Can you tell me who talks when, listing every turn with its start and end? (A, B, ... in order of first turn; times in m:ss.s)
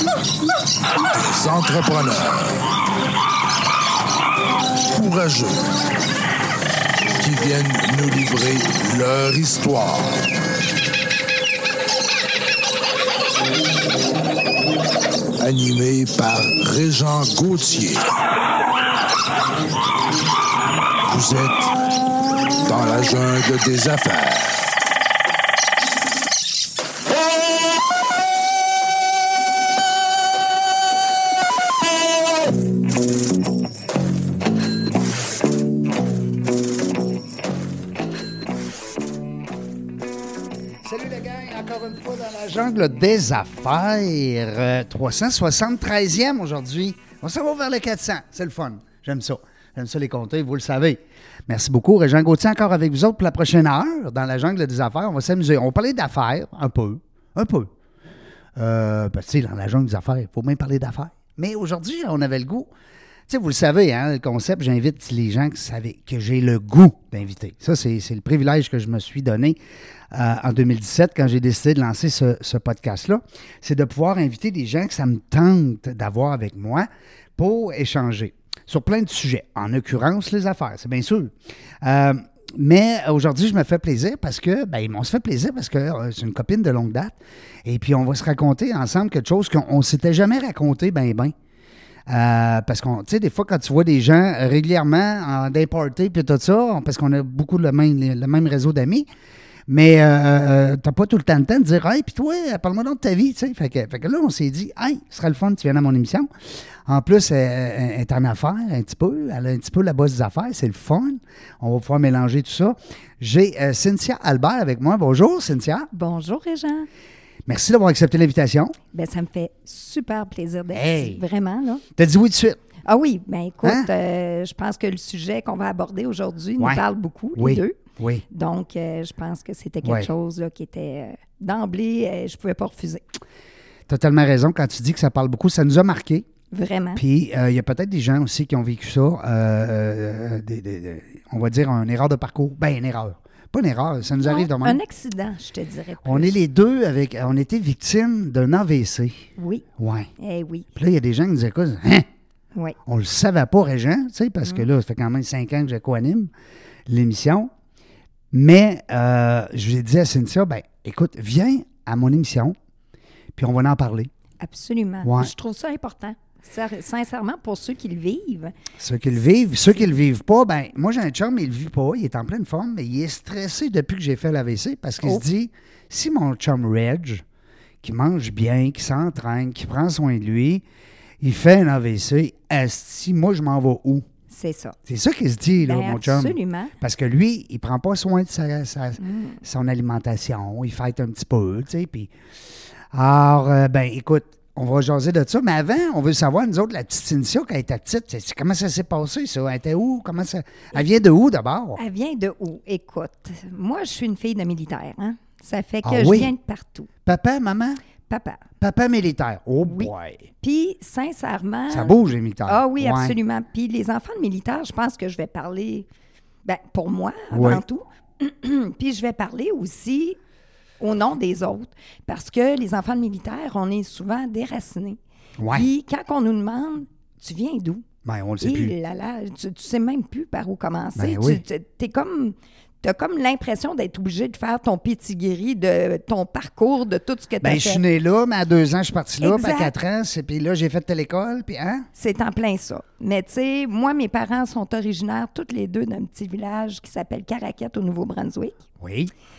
0:01.3-0:02.6 A
0:04.9-0:05.7 A
0:07.2-0:10.2 A
0:15.4-0:18.1 A
0:21.1-0:21.7 A
0:22.6-0:24.7 A
0:40.8-0:57.7 B
0:58.6-1:02.7 B
1:03.3-1:09.6 B
1:10.1-1:31.3 B
1:32.1-1:39.1 B
1:39.7-1:46.3 B
1:46.8-1:55.9 B
1:55.9-1:56.9 C
1:57.5-1:58.8 B
1:58.9-2:01.8 C
2:00.7-2:01.2 B
2:02.0-2:02.6 B
2:02.8-2:07.8 C
2:03.6-2:03.9 B
2:07.4-2:08.2 B
2:08.3-2:13.0 C
2:09.8-2:10.1 B
2:13.9-2:16.3 B
2:16.5-2:17.0 C
2:17.0-2:24.8 B
2:24.1-2:26.4 C
2:26.0-2:30.1 B
2:29.4-2:29.6 C
2:30.2-2:30.7 C
2:30.8-2:32.1 B
2:32.9-2:36.3 B
2:36.9-2:37.5 B
2:38.3-2:42.6 B
2:43.4-2:44.1 B
2:44.4-2:48.5 C
2:45.0-2:45.3 B
2:48.8-2:57.2 B
2:57.8-3:00.6 B
3:01.2-3:04.1 B
3:04.3-3:04.8 C
3:04.9-3:12.1 B
3:05.6-3:06.7 C
3:09.0-3:09.4 C
3:12.9-3:21.8 B
3:21.8-3:26.9 C
3:25.8-3:26.3 B
3:27.0-3:27.8 B
3:28.1-3:28.4 C
3:28.6-3:30.3 B
3:29.6-3:31.9 C
3:31.7-3:33.2 B
3:32.5-3:35.9 C
3:36.4-3:40.2 C
3:37.3-3:37.6 B
3:40.8-3:45.0 C
3:45.4-3:45.7 B
3:45.5-3:47.8 C
3:48.0-3:48.8 B
3:48.4-3:57.8 C
3:51.0-3:51.4 B
3:57.4-4:01.9 B
3:59.2-3:59.7 C
4:02.0-4:08.6 C
4:08.8-4:09.1 B